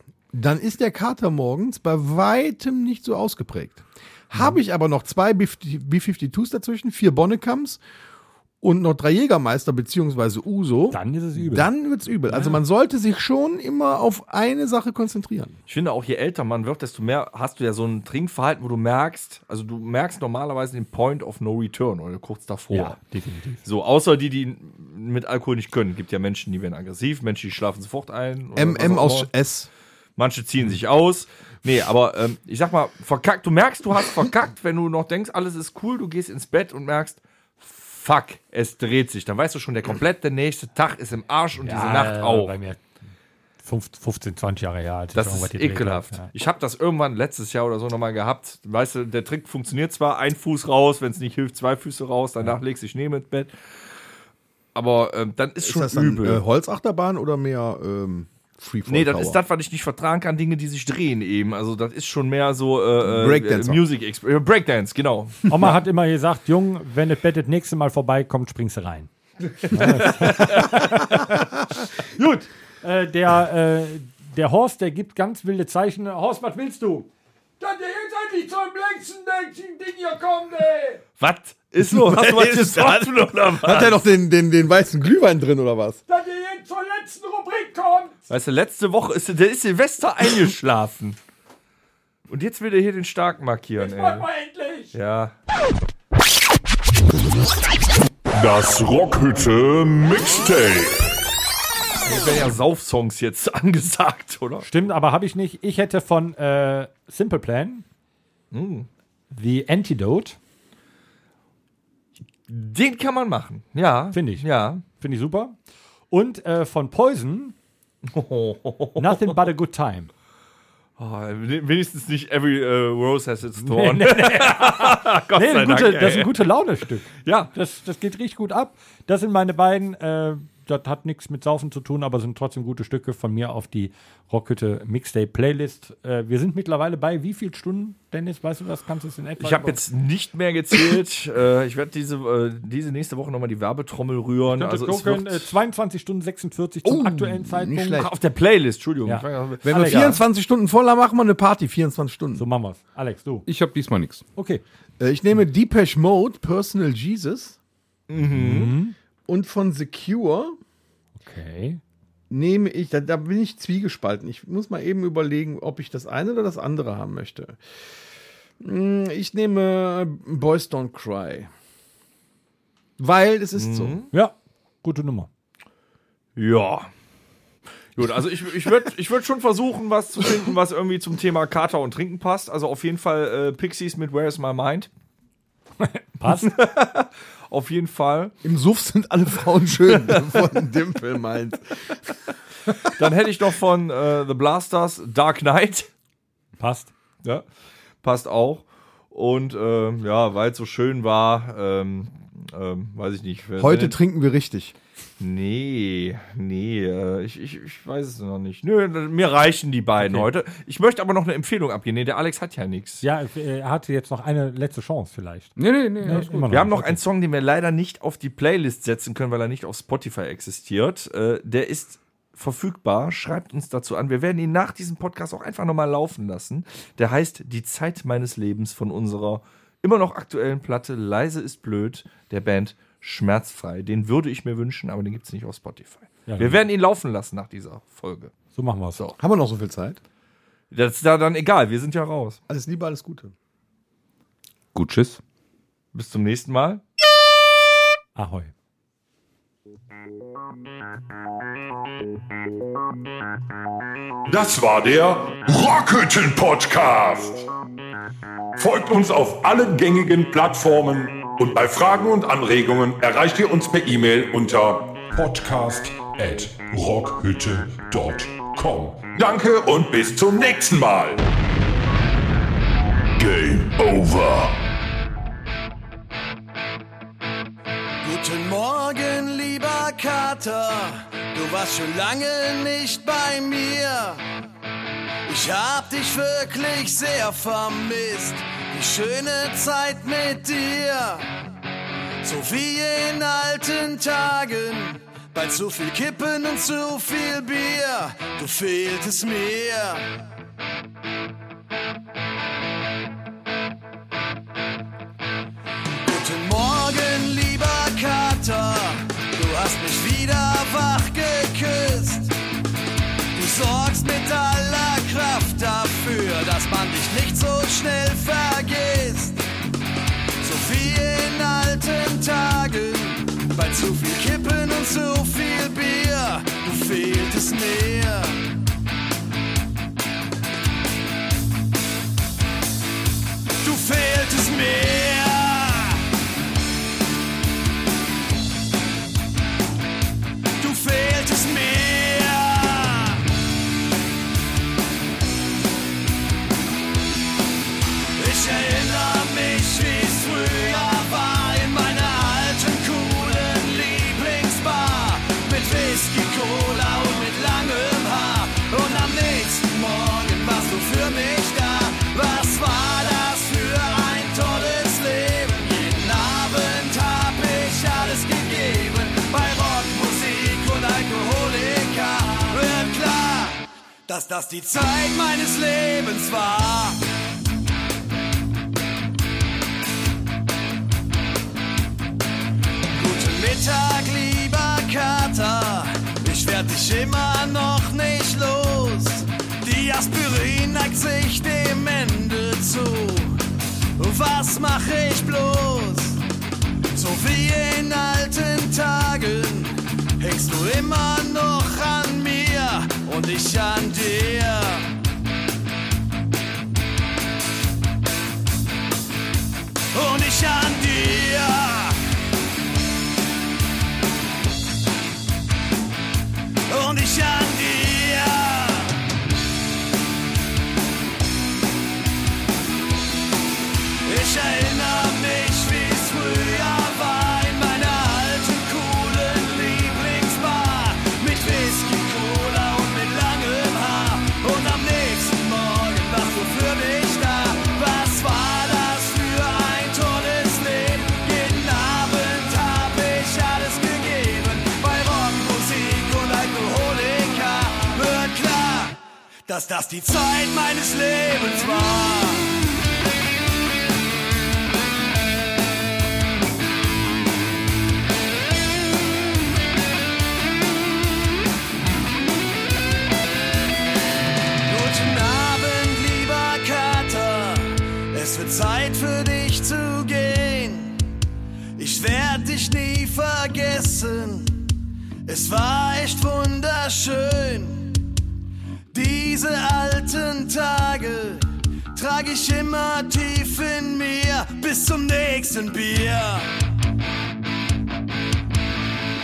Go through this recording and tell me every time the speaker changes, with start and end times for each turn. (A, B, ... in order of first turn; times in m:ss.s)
0:00.3-0:07.8 A
0:08.6-0:15.6 A
0:10.9-0:11.7 B
0:12.3-0:12.6 B
0:15.7-0:23.0 C
0:22.7-0:23.6 B
0:23.6-0:29.3 C
0:28.6-0:29.7 A
0:30.2-0:42.5 C
0:41.6-0:42.8 B
0:43.6-0:46.3 B
0:45.2-0:53.5 C
0:54.8-0:56.4 C
0:55.6-0:59.4 A
0:58.9-1:05.8 C
1:03.0-1:03.8 A
1:05.5-1:17.1 B
1:17.6-1:21.0 B
1:21.2-1:24.0 C
1:21.8-1:26.0 A
1:26.1-1:28.1 B
1:28.3-1:31.2 C
1:32.3-1:34.3 C
1:33.8-1:34.9 B
1:34.9-1:35.3 C
1:38.3-1:41.2 D
1:42.0-1:44.7 C
1:44.6-1:47.8 B
1:48.5-1:48.9 C
1:49.3-1:50.4 B
1:52.5-1:54.8 C
1:54.1-1:55.6 B
1:56.1-1:57.6 B
1:58.1-1:59.3 C
1:59.0-2:00.1 B
2:01.0-2:06.4 C
2:03.6-2:19.8 B
2:07.2-2:07.5 C
2:19.4-2:25.5 C
2:24.5-2:28.1 B
2:26.8-2:28.1 A
2:28.0-2:30.2 C
2:29.0-2:30.2 B
2:29.6-2:32.4 A
2:32.4-2:33.5 B
2:33.5-2:34.2 E
2:34.4-2:34.6 B
2:35.0-2:37.6 A
2:38.1-2:38.7 C
2:38.3-2:39.0 B
2:39.3-2:40.6 A
2:41.2-2:41.8 B
2:42.3-2:47.6 A
2:48.6-2:51.5 A
2:53.0-2:54.0 A
2:53.5-2:54.1 C
2:54.1-2:55.3 B
2:56.4-2:56.9 C
2:58.0-3:04.9 C
3:05.8-3:06.6 B
3:06.4-3:08.3 C
3:08.4-3:11.6 A
3:12.9-3:15.9 C
3:16.6-3:16.9 B
3:18.0-3:24.0 C
3:23.6-3:24.7 A
3:25.2-3:33.0 C
3:30.0-3:30.3 B
3:33.0-3:37.0 B
3:35.6-3:36.7 E
3:36.5-3:58.3 C
3:56.3-3:56.6 B
3:58.6-3:59.0 B
3:59.2-4:00.0 A
4:00.7-4:02.4 C
4:02.5-4:03.3 A
4:04.7-4:05.2 E
4:05.9-4:06.8 C
4:08.2-4:08.5 B
4:14.3-4:17.5 D
4:18.6-4:31.2 D
4:33.2-4:34.6 D
4:38.0-4:44.2 F
4:45.3-4:51.3 F
4:52.2-5:00.1 F
5:06.0-5:12.4 F
5:13.4-5:19.5 F
5:20.4-5:28.5 F
5:33.6-5:36.0 F
5:40.6-5:43.2 F
5:48.2-6:17.0 F
6:22.9-6:33.4 F
6:34.0-6:36.2 F
6:36.9-6:44.9 F
6:49.9-6:52.0 F
6:56.7-6:59.0 F
7:04.0-7:32.6 F
7:44.7-7:51.0 F
7:51.8-7:54.7 F
7:55.3-7:58.0 F
7:58.9-8:06.5 F